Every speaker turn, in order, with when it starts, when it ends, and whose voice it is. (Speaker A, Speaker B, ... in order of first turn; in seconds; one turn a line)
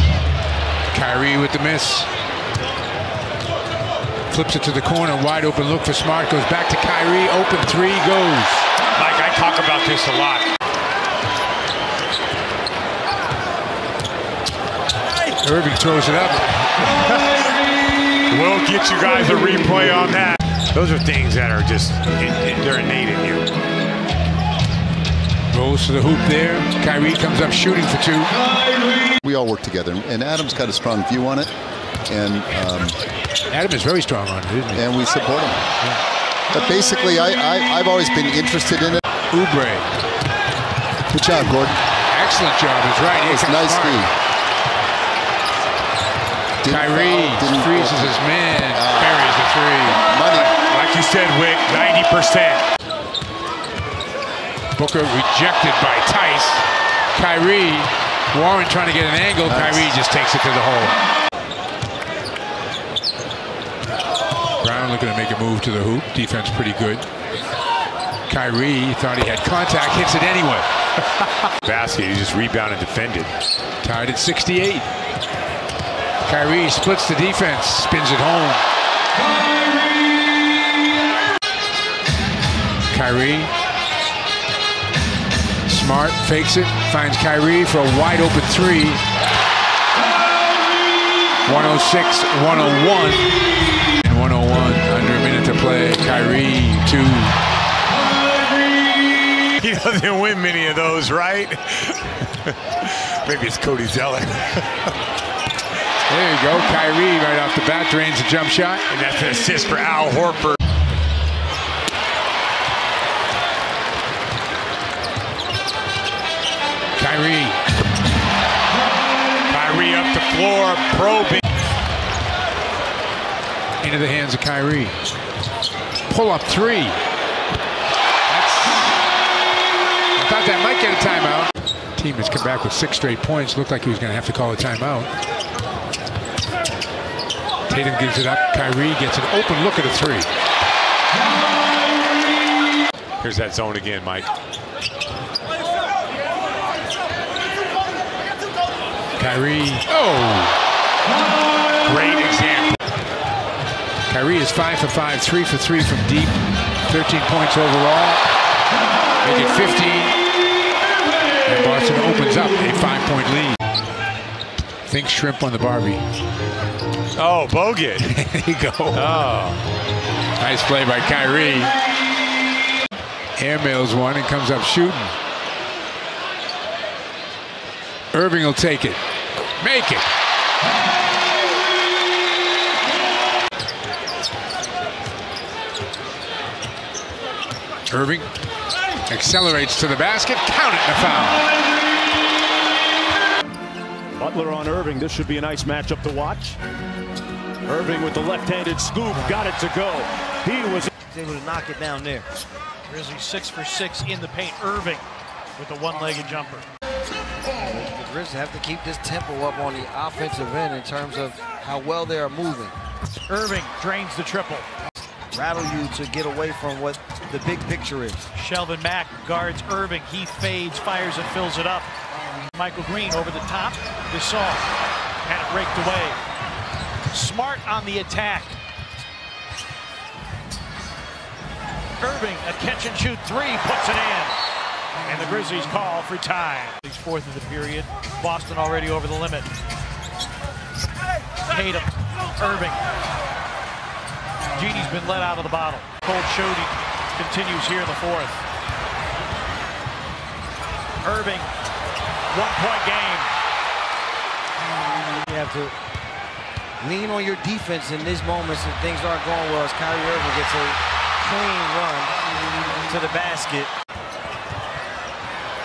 Speaker A: 0.9-2.1
Speaker A: 4.3-8.7
Speaker B: 9.5-9.8
Speaker A: 15.4-17.0
Speaker B: 18.3-23.5
Speaker A: 25.5-28.3
Speaker C: 29.2-31.5
Speaker C: 32.1-32.9
Speaker A: 33.5-34.9
Speaker C: 34.7-35.7
Speaker C: 36.5-39.0
Speaker A: 39.3-39.9
Speaker C: 41.1-41.8
Speaker A: 42.1-44.0
Speaker C: 43.2-44.1
Speaker C: 46.6-49.5
Speaker A: 46.6-50.5
Speaker C: 50.1-50.5
Speaker B: 50.6-52.6
Speaker A: 54.8-61.0
Speaker C: 59.4-59.9
Speaker A: 64.6-67.0
Speaker A: 68.3-70.7
Speaker B: 71.6-73.3
Speaker A: 73.8-74.9
Speaker A: 76.2-78.6
Speaker A: 82.9-83.5
Speaker A: 85.7-89.0
Speaker A: 91.5-93.3
Speaker A: 94.0-97.3
Speaker B: 99.6-101.7
Speaker B: 102.8-104.5
Speaker A: 106.1-108.8
Speaker B: 108.9-110.5
Speaker A: 117.0-117.6
Speaker B: 119.5-121.3
Speaker A: 123.8-124.9
Speaker A: 126.1-127.0
Speaker A: 128.3-128.9
Speaker A: 130.2-135.1
Speaker A: 137.7-140.3
Speaker B: 143.2-144.3
Speaker A: 149.2-150.6
Speaker A: 151.9-152.7
Speaker A: 154.1-156.3
Speaker A: 156.9-158.2
Speaker A: 159.2-160.2
Speaker A: 161.4-163.6
Speaker A: 164.9-166.0
Speaker A: 168.0-169.2
Speaker A: 170.4-171.7
Speaker A: 173.4-175.1
Speaker A: 178.1-179.0
Speaker A: 179.6-180.0
Speaker A: 187.9-188.3
Speaker A: 189.1-191.4
Speaker D: 194.2-196.6
Speaker D: 197.6-200.9
Speaker E: 201.1-202.3
Speaker F: 202.9-205.0
Speaker E: 203.1-203.7
Speaker F: 205.7-206.6
Speaker E: 207.6-212.7
Speaker F: 213.3-214.6
Speaker E: 215.3-218.3
Speaker F: 218.4-221.8
Speaker F: 222.6-224.6
Speaker F: 225.3-226.1
Speaker F: 227.1-228.5
Speaker F: 232.0-234.3
Speaker F: 235.1-237.8
Speaker F: 244.5-248.4
Speaker F: 251.1-251.4
Speaker F: 252.3-253.3
Speaker E: 255.2-255.7
Speaker E: 256.8-262.1
Speaker E: 262.9-263.7